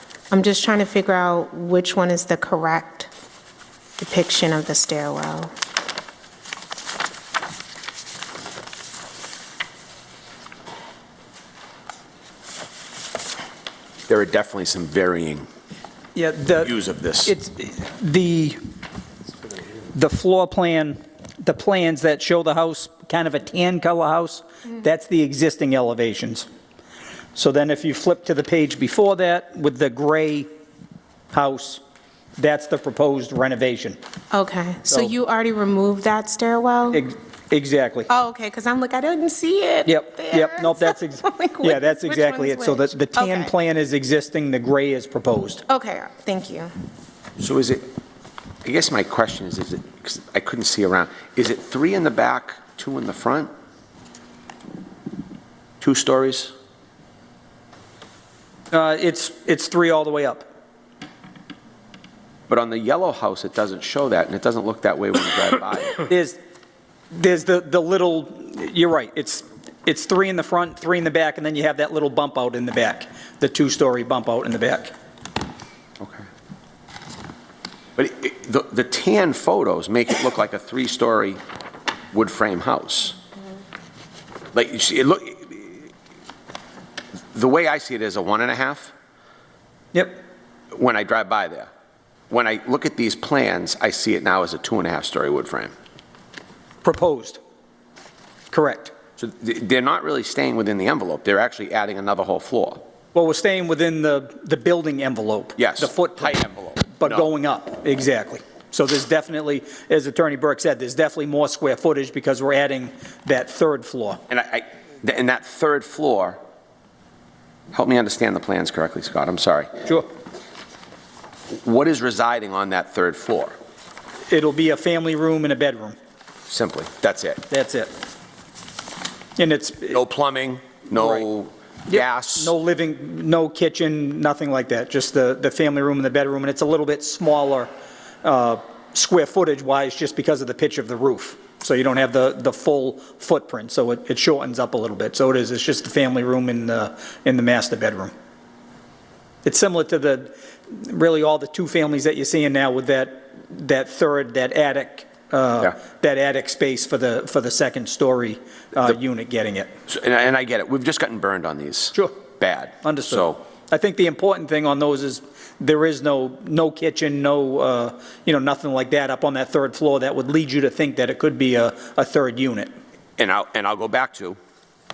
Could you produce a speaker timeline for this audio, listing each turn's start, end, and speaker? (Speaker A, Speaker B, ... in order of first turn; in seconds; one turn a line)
Speaker A: 0.3-3.1
Speaker A: 4.0-5.5
Speaker B: 14.1-15.5
Speaker C: 16.1-16.7
Speaker B: 16.6-17.3
Speaker C: 17.2-18.6
Speaker C: 19.9-26.5
Speaker C: 27.4-30.5
Speaker C: 31.3-31.8
Speaker C: 32.4-34.0
Speaker A: 34.3-37.0
Speaker C: 36.9-38.1
Speaker A: 38.1-43.5
Speaker C: 39.9-45.6
Speaker A: 45.7-46.7
Speaker B: 47.4-47.9
Speaker B: 48.6-53.5
Speaker B: 55.8-56.5
Speaker C: 58.7-60.5
Speaker B: 62.5-66.0
Speaker C: 66.1-66.4
Speaker C: 67.1-74.9
Speaker B: 76.0-76.2
Speaker B: 78.0-81.4
Speaker B: 82.1-83.2
Speaker B: 84.5-85.9
Speaker B: 87.3-88.9
Speaker B: 90.7-91.7
Speaker B: 92.3-95.7
Speaker C: 96.8-97.4
Speaker C: 98.5-98.9
Speaker B: 99.2-102.8
Speaker C: 103.1-114.2
Speaker B: 105.6-107.3
Speaker B: 114.3-116.4
Speaker B: 117.7-119.7
Speaker B: 121.5-123.6
Speaker C: 124.3-126.0
Speaker B: 126.5-127.4
Speaker C: 127.5-127.9
Speaker C: 129.4-130.0
Speaker B: 129.9-132.5
Speaker C: 130.9-131.2
Speaker C: 131.9-137.7
Speaker C: 138.2-148.1
Speaker C: 149.4-159.7
Speaker B: 159.9-163.4
Speaker C: 162.8-172.7
Speaker B: 173.2-174.4